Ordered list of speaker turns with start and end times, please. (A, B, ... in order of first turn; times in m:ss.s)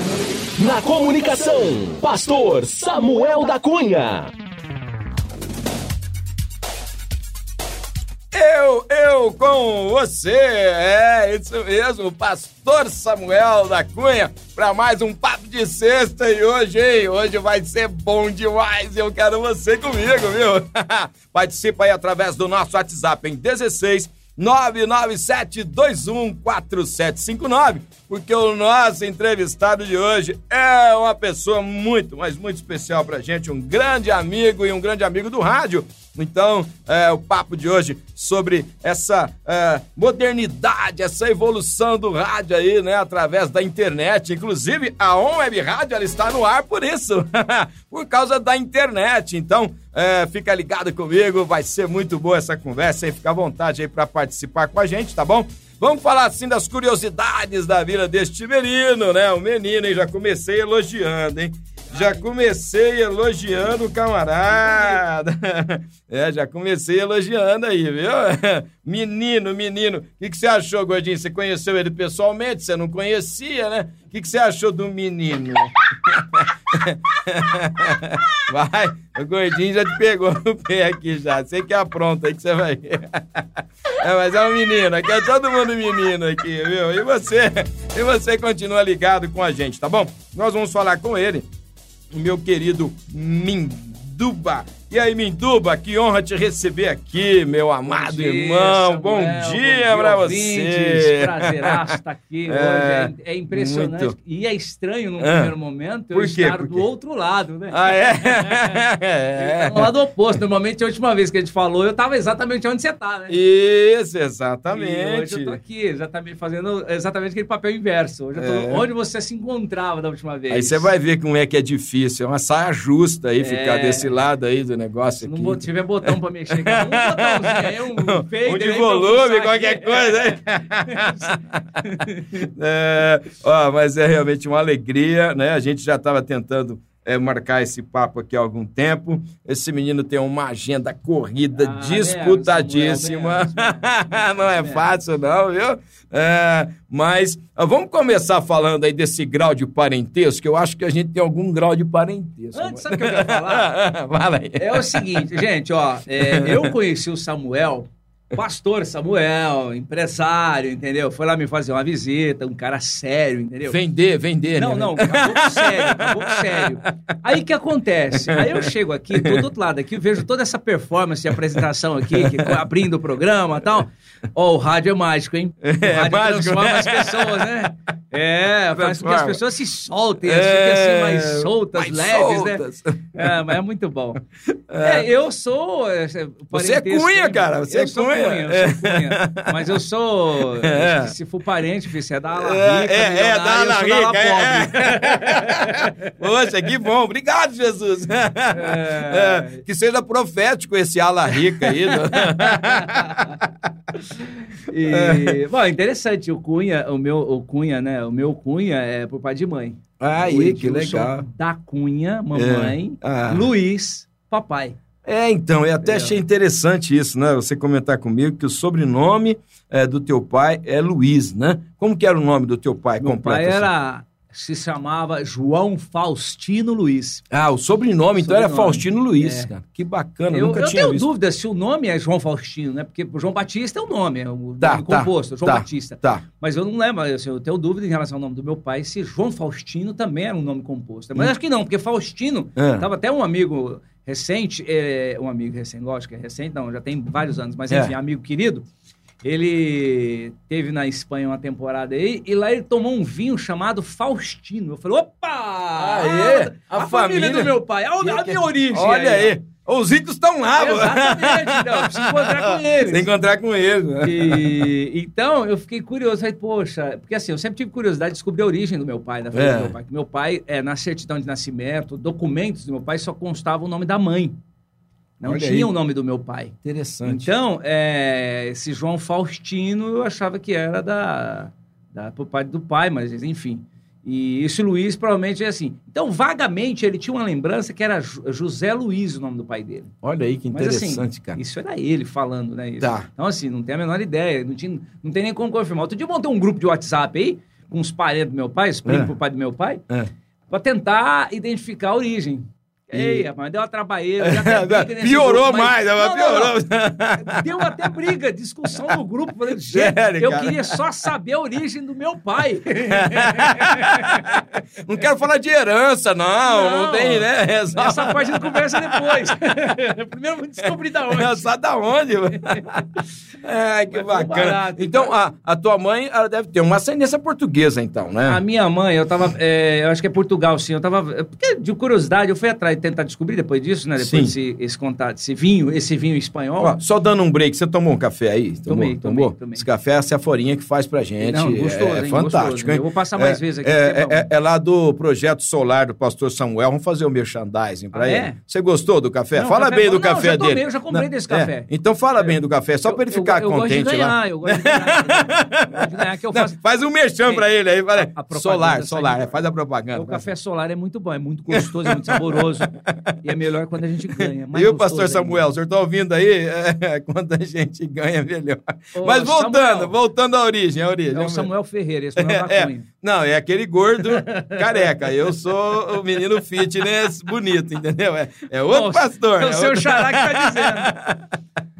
0:00.6-0:04.3 A
0:08.3-1:31.5 B
1:32.1-1:42.0 B
1:37.9-1:48.8 C
1:42.5-1:44.1 B
1:45.2-1:45.5 B
1:46.1-1:46.8 B
1:47.7-1:49.9 B
1:49.3-1:53.4 C
1:53.3-1:55.6 B
1:54.7-2:00.9 C
1:58.4-1:58.8 B
2:00.5-2:11.4 B
2:03.4-2:04.1 C
2:05.2-2:12.3 C
2:12.3-2:35.3 B
2:21.5-2:24.8 C
2:32.5-2:33.7 C
2:34.6-2:43.8 C
2:36.2-2:36.7 B
2:43.7-2:46.6 B
2:44.6-3:02.6 C
2:48.3-2:48.6 B
2:52.1-2:52.6 B
2:55.6-2:57.5 B
2:58.7-2:59.4 B
3:00.2-3:03.4 B
3:03.1-3:04.2 C
3:04.7-3:05.1 B
3:04.8-3:16.1 C
3:06.5-3:09.8 B
3:10.4-3:11.1 B
3:12.3-3:23.5 B
3:18.5-3:19.6 C
3:21.6-3:23.4 C
3:24.0-3:34.8 C
3:24.8-3:25.4 B
3:30.0-3:31.2 B
3:32.3-3:33.5 B
3:35.0-3:43.7 B
3:35.8-3:36.1 C
3:43.0-3:47.2 C
3:47.3-3:51.1 B
3:48.2-3:49.5 C
3:50.3-4:08.6 C
3:54.6-3:56.2 B
4:02.6-4:02.9 B
4:09.2-4:19.3 C
4:15.8-4:24.7 B
4:20.6-4:23.1 C
4:24.0-4:34.4 C
4:29.3-4:29.8 B
4:35.2-4:49.9 C
4:35.2-4:35.7 B
4:36.6-4:37.3 B
4:50.0-4:51.4 B
4:50.5-4:59.8 C
4:52.8-4:53.1 B
4:58.8-4:59.1 B
5:00.5-5:06.6 C
5:02.9-5:03.3 B
5:04.2-5:07.7 B
5:07.2-5:14.4 C
5:09.6-5:10.8 B
5:12.9-5:19.5 B
5:16.4-5:21.5 C
5:21.1-5:28.4 B
5:22.3-5:22.6 C
5:23.9-5:25.1 C
5:28.3-5:36.8 C
5:34.0-5:34.3 B
5:36.6-6:00.3 B
5:38.7-5:39.6 C
5:41.2-5:44.3 C
5:47.9-5:48.4 C
5:49.3-5:52.3 C
5:52.8-5:56.6 C
5:57.2-6:02.7 C
6:01.5-6:03.3 B
6:03.2-6:05.4 C
6:04.2-6:11.5 B
6:08.9-6:09.9 C
6:11.1-6:12.9 C
6:12.2-6:21.3 B
6:14.1-6:14.8 C
6:18.7-6:20.9 C